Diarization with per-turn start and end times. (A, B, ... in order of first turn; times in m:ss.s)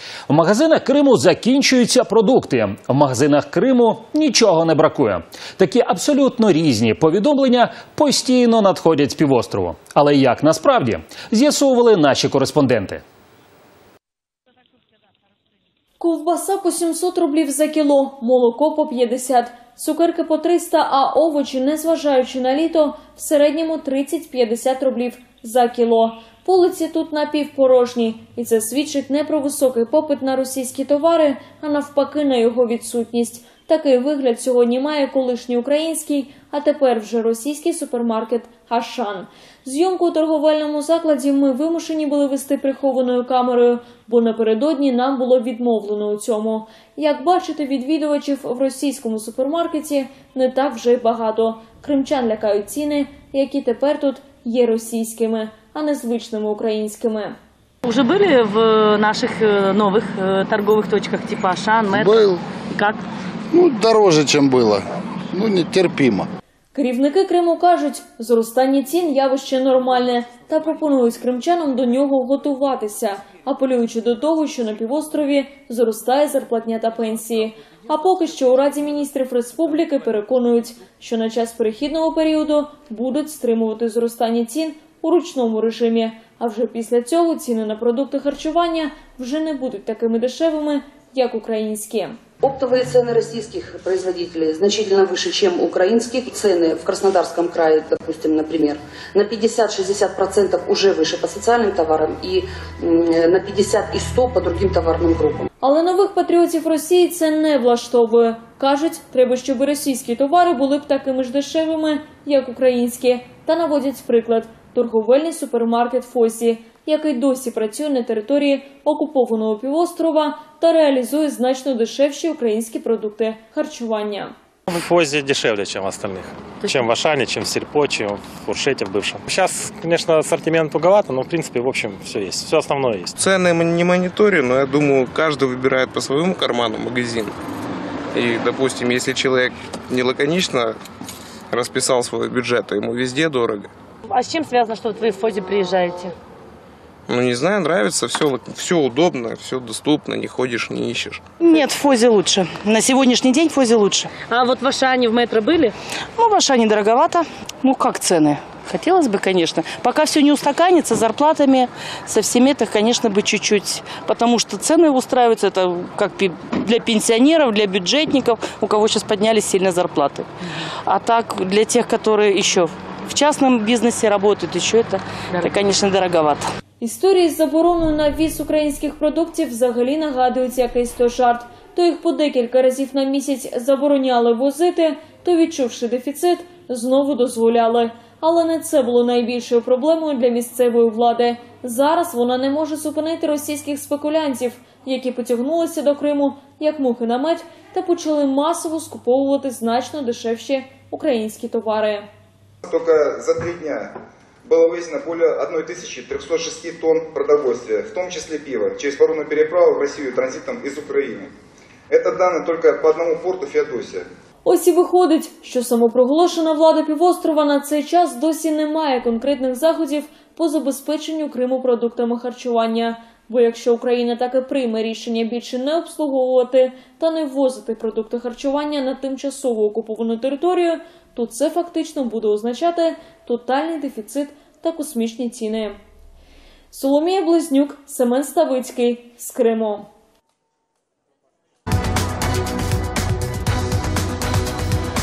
0:00.3-0:13.0 A
0:16.0-0:57.4 B
0:58.1-1:01.7 C
1:01.9-1:02.4 D
1:03.5-1:06.3 D
1:06.7-1:32.2 B
1:32.4-1:45.4 E
1:45.6-2:04.3 B
2:04.7-2:13.1 F
2:13.2-2:17.3 G
2:18.1-2:20.7 G
2:21.5-2:23.7 G
2:24.3-2:26.1 C
2:27.1-2:31.2 G
2:31.4-2:34.1 H
2:34.3-2:35.7 C
2:36.1-2:50.3 H
2:50.8-2:56.4 H
2:56.8-3:22.1 B
3:22.6-3:31.3 I
3:31.9-3:34.0 I
3:34.4-3:55.8 B
3:56.7-3:59.9 B